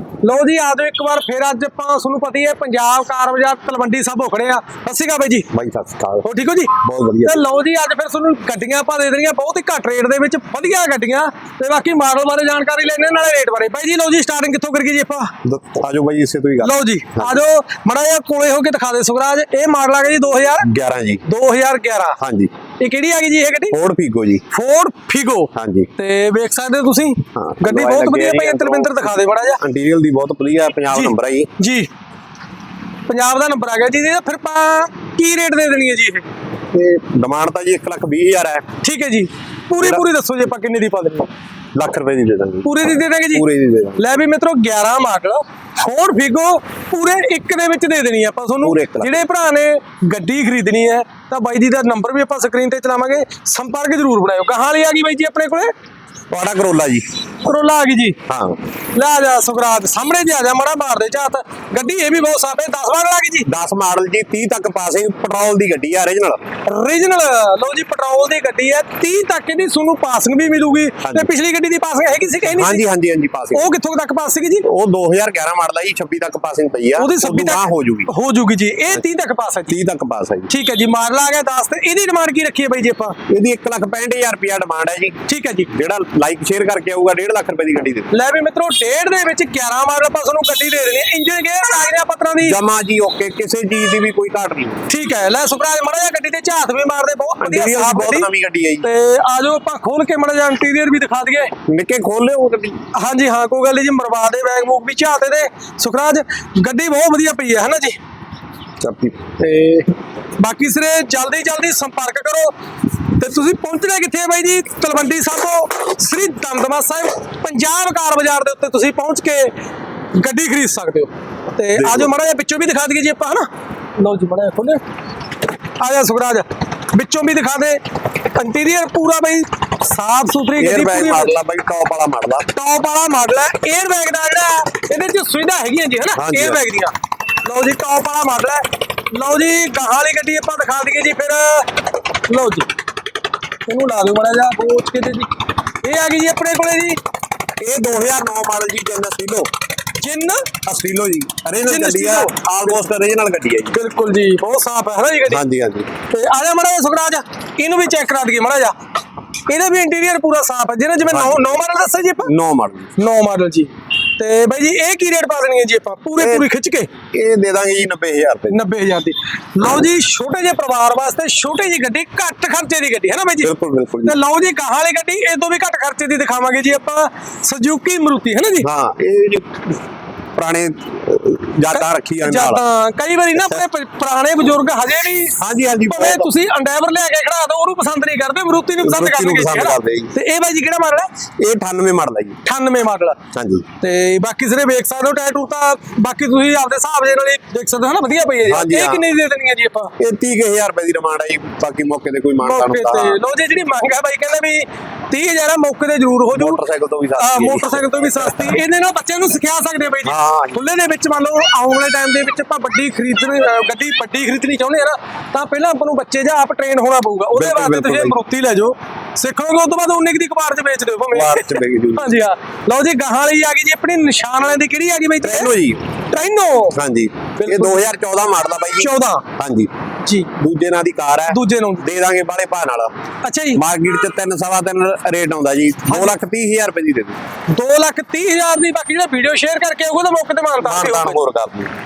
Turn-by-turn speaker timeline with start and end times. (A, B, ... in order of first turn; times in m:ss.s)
0:00.2-0:05.5 A
0:05.5-0:06.3 B
0:06.2-0:15.4 A
0:06.8-0:07.5 B
0:15.4-0:17.4 B
0:16.6-0:20.7 A
0:20.6-0:21.2 B
0:21.3-0:22.2 A
0:22.2-0:22.5 B
0:22.8-0:23.8 A
0:23.7-0:24.4 B
0:24.5-0:29.6 A
0:25.6-0:25.9 B
0:27.4-0:31.5 B
0:30.9-0:31.9 A
0:33.1-0:36.3 A
0:36.7-0:38.7 B
0:38.8-0:41.3 A
0:39.8-0:40.0 B
0:41.8-0:42.7 B
0:42.6-0:55.7 A
0:43.3-0:44.0 B
0:48.6-0:49.2 B
0:56.3-0:57.0 B
0:57.4-0:58.2 A
0:58.3-0:58.6 B
0:58.9-1:03.5 A
1:03.5-1:06.5 B
1:06.6-1:12.8 A
1:11.0-1:11.3 B
1:12.5-1:13.7 B
1:13.5-1:14.7 A
1:14.6-1:18.1 B
1:17.0-1:19.8 A
1:19.7-1:20.5 B
1:20.5-1:23.2 A
1:23.3-1:25.2 B
1:25.3-1:25.7 A
1:25.7-1:28.1 B
1:28.1-1:32.6 A
1:32.4-1:34.8 B
1:34.9-1:38.3 A
1:37.4-1:38.9 B
1:38.8-1:41.5 A
1:41.7-1:42.9 B
1:42.9-1:48.0 A
1:48.8-1:49.4 B
1:49.4-1:52.5 A
1:53.1-1:59.5 A
2:00.1-2:04.8 A
2:01.8-2:02.1 B
2:05.8-2:11.4 A
2:10.6-2:12.5 B
2:12.5-2:22.7 A
2:16.2-2:16.6 B
2:23.7-2:27.0 A
2:27.6-2:29.5 B
2:30.0-2:30.5 A
2:30.6-2:33.8 B
2:31.6-2:32.8 A
2:33.7-2:35.4 A
2:35.3-2:36.0 B
2:36.0-2:38.8 A
2:39.5-2:42.3 A
2:41.1-2:41.5 B
2:42.2-2:42.9 B
2:43.0-2:46.9 A
2:46.2-2:46.5 B
2:47.1-2:48.6 B
2:48.5-2:53.5 A
2:53.4-2:54.2 B
2:54.0-2:58.7 A
2:58.6-2:59.8 B
3:00.4-3:02.6 B
3:01.7-3:05.4 A
3:05.4-3:06.3 B
3:05.9-3:11.1 A
3:08.8-3:10.2 B
3:11.4-3:12.4 B
3:12.4-3:13.2 A
3:13.3-3:13.7 B
3:13.8-3:19.9 A
3:18.5-3:19.1 B
3:20.0-3:23.2 B
3:22.4-3:26.6 A
3:26.3-3:28.4 B
3:27.2-3:45.5 A
3:30.0-3:30.6 B
3:37.4-3:38.2 B
3:41.1-3:42.2 B
3:45.2-3:45.9 B
3:46.1-3:46.8 A
3:46.7-3:49.7 B
3:47.4-3:47.8 A
3:48.8-3:49.3 A
3:50.0-3:50.3 A
3:50.3-3:52.9 B
3:51.3-3:51.9 A
3:53.2-3:53.6 A
3:53.6-3:57.2 B
3:55.9-3:56.2 A
3:57.5-4:01.2 A
4:00.6-4:01.7 B